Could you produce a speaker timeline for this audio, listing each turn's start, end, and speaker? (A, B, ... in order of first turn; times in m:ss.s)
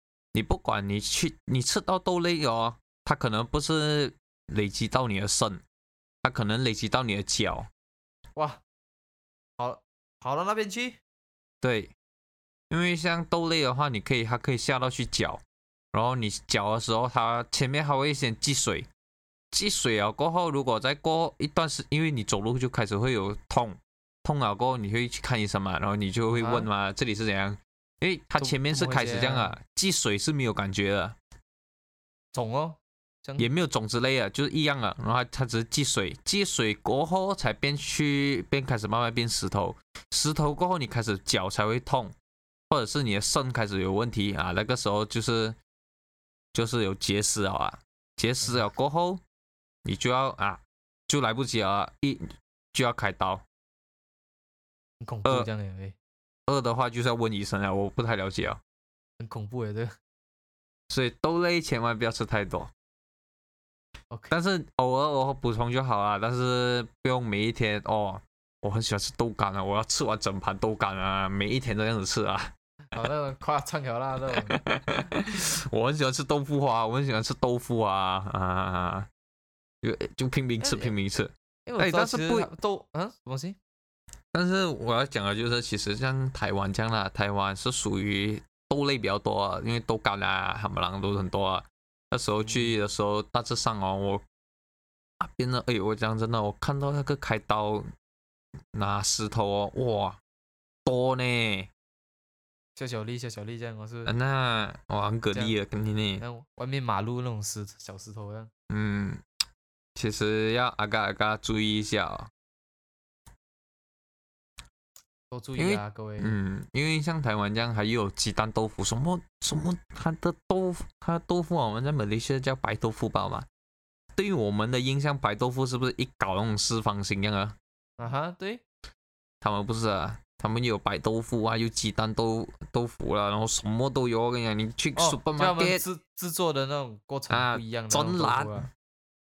0:00.3-0:05.6 A
0:06.2-0:07.7 A
0:08.4-0:08.6 B
0:09.6-0:11.0 B
0:11.6-0:11.9 A
0:12.7-0:18.9 A
0:19.5-0:31.2 A
0:26.3-0:26.7 B
0:28.4-0:29.6 B
0:32.3-0:33.5 B
0:33.4-0:42.1 A
0:42.7-0:45.6 A
0:46.5-0:49.2 A
0:49.8-0:53.4 A
0:55.0-0:56.0 B
0:56.5-0:58.6 A
0:59.2-0:59.9 B
1:00.9-1:02.7 A
1:04.3-1:12.5 A
1:12.9-1:14.6 B
1:14.3-1:19.1 A
1:19.8-1:22.5 A
1:20.6-1:20.9 B
1:21.7-1:23.6 B
1:24.3-1:34.2 A
1:32.4-1:32.8 B
1:35.2-1:37.9 A
1:38.7-1:40.2 A
1:40.9-1:41.7 A
1:42.8-1:44.1 B
1:44.1-1:46.2 A
1:46.2-1:48.5 B
1:48.7-1:49.2 A
1:50.0-1:52.3 A
1:55.3-1:56.4 B
1:55.6-2:03.5 A
2:04.2-2:07.6 A
2:08.0-2:08.6 B
2:09.4-2:15.8 A
2:15.0-2:18.7 B
2:17.3-2:18.7 A